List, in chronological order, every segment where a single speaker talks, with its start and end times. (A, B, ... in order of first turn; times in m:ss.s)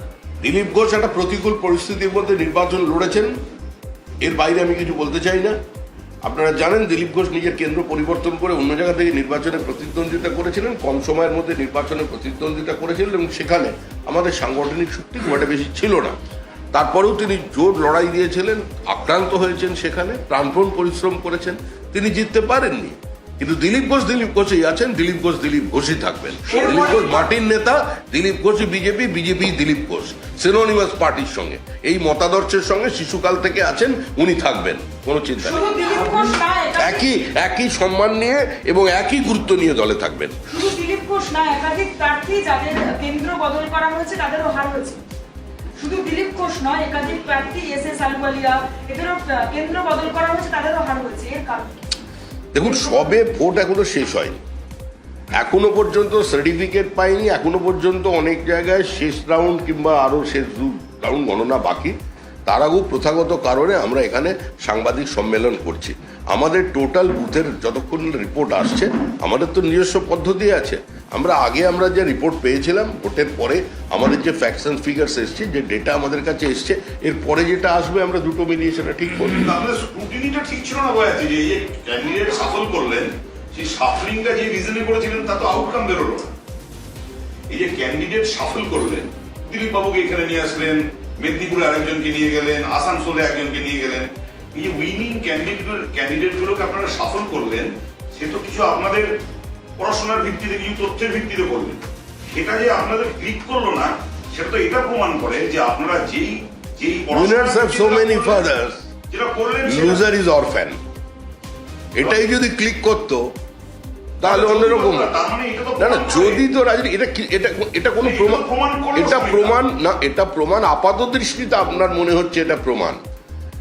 0:00.4-0:03.3 A
0:04.2-0:05.6 A
0:06.2-0:16.2 A
0:16.7-0:35.6 A
0:26.5-0:27.1 B
0:35.4-0:37.1 B
0:36.8-0:40.4 A
0:40.5-0:45.0 B
0:45.8-0:51.9 B
0:52.5-0:54.4 A
0:55.3-1:01.9 A
1:02.5-1:19.5 A
1:19.4-1:26.3 C
1:27.5-1:39.2 C
1:39.8-1:48.4 C
1:47.1-1:48.9 A
1:49.1-1:50.0 C
1:49.6-1:50.8 A
1:52.0-1:53.3 A
1:54.2-1:55.1 A
1:54.2-1:56.4 C
1:55.8-2:03.0 A
1:58.0-1:59.5 C